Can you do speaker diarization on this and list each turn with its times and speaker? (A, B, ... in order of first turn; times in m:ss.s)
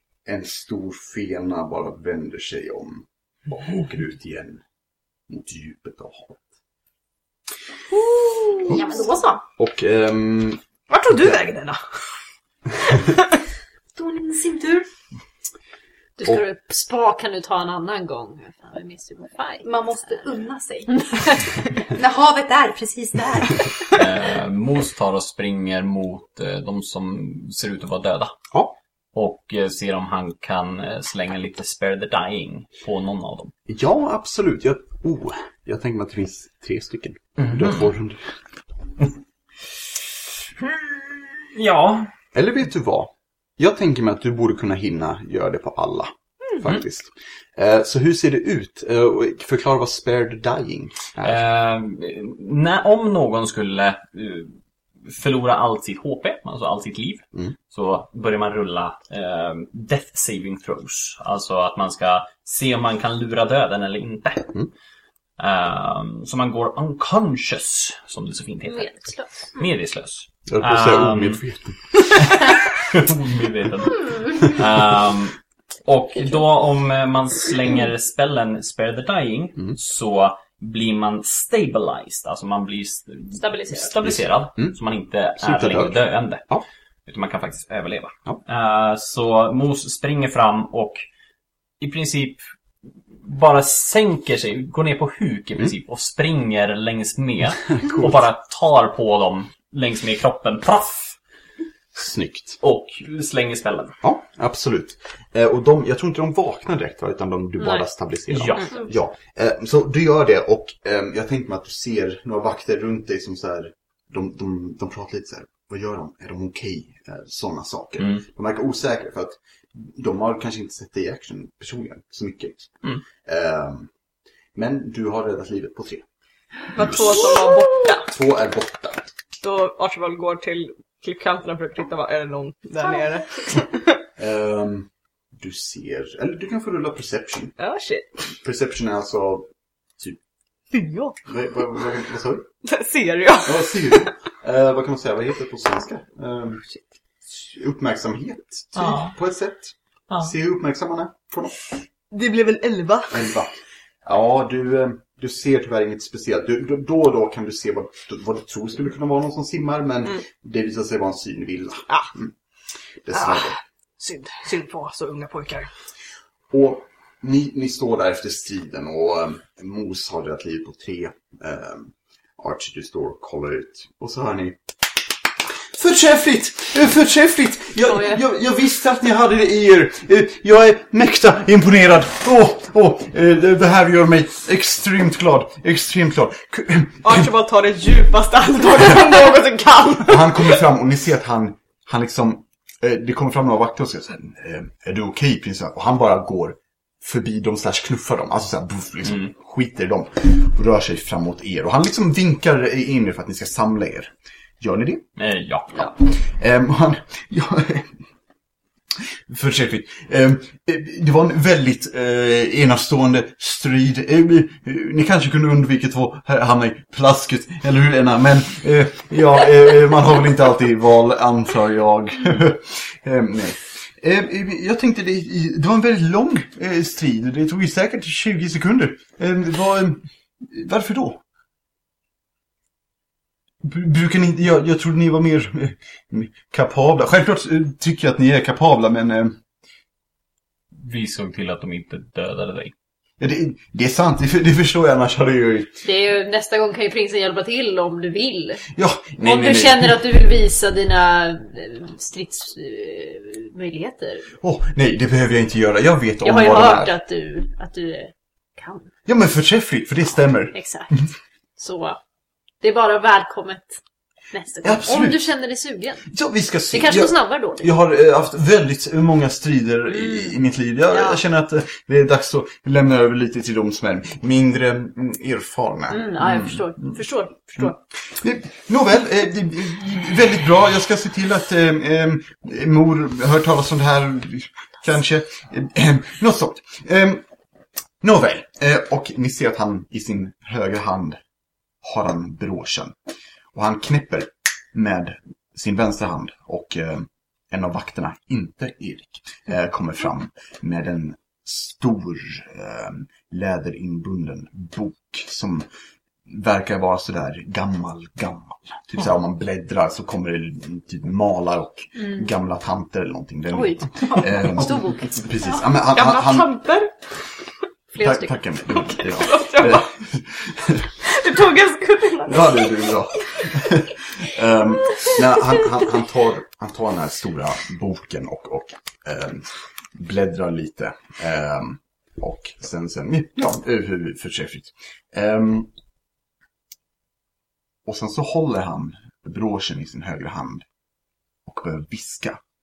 0:00.3-0:04.6 A
0:05.3-0:06.4 A
0:07.9-0:09.4 B
0:08.7-0:09.0 A
0:09.6-0:11.5 A
0:10.9-0:11.8 C
0:14.0-0:14.9 B
0:16.2-0:20.2 D
0:19.6-0:24.0 B
0:20.9-0:21.4 D
0:23.9-0:28.4 E
0:29.1-0:33.6 E
0:33.7-0:38.2 A
0:37.4-0:37.9 E
0:40.6-0:42.1 E
0:42.3-0:51.4 A
0:51.2-0:54.5 E
0:55.1-1:04.5 E
1:05.4-1:11.4 E
1:08.7-1:09.3 D
1:10.5-1:12.0 A
1:12.1-1:26.5 E
1:23.4-1:24.0 D
1:24.0-1:24.8 A
1:25.4-1:26.6 A
1:27.1-1:31.0 E
1:31.8-1:32.4 E
1:33.2-1:41.2 E
1:42.0-1:42.6 A
1:42.6-1:44.0 E
1:44.0-2:02.7 A
1:48.3-1:48.7 E
2:03.2-2:03.9 A
2:04.6-2:06.1 A
2:06.8-2:08.1 C
2:06.8-2:07.5 A
2:08.0-2:09.1 A
2:09.4-2:13.9 C
2:14.2-2:17.6 A
2:17.6-2:18.1 C
2:18.4-2:20.2 A
2:20.7-2:21.2 C
2:21.2-2:22.5 A
2:22.6-2:24.0 C
2:23.4-2:26.6 A
2:27.3-2:31.6 A
2:28.8-2:29.1 E
2:32.1-2:33.3 C
2:33.1-2:42.3 A
2:43.0-2:43.6 A
2:43.1-2:45.7 C
2:46.5-2:54.6 A
2:55.7-3:07.2 A
3:07.0-3:10.6 C
3:10.0-3:25.1 A
3:25.2-3:25.9 E
3:26.2-3:27.9 A
3:29.3-3:51.2 A
3:53.6-3:59.4 A
4:00.8-4:02.7 E
4:03.2-4:05.8 A
4:05.8-4:08.6 D
4:08.7-4:10.0 A
4:09.2-4:14.3 D
4:14.4-4:16.9 A
4:16.2-4:18.9 D
4:19.1-4:21.1 A
4:20.5-4:22.0 D
4:22.6-4:23.8 D
4:24.3-4:26.1 D
4:24.6-4:25.3 A
4:26.1-4:36.6 A
4:26.7-4:27.7 D
4:29.9-4:30.3 D
4:30.9-4:31.2 D
4:35.9-4:37.8 D
4:37.6-4:47.2 A
4:48.0-4:51.2 A
4:51.8-4:53.0 A
4:53.5-5:05.7 A
5:06.3-5:16.6 A
5:13.5-5:15.2 D
5:15.9-5:16.9 C
5:17.9-5:18.3 D
5:18.0-5:20.9 A
5:19.0-5:19.9 C
5:21.0-5:22.7 C
5:22.2-5:35.7 A
5:37.9-5:40.7 A
5:41.5-5:42.4 A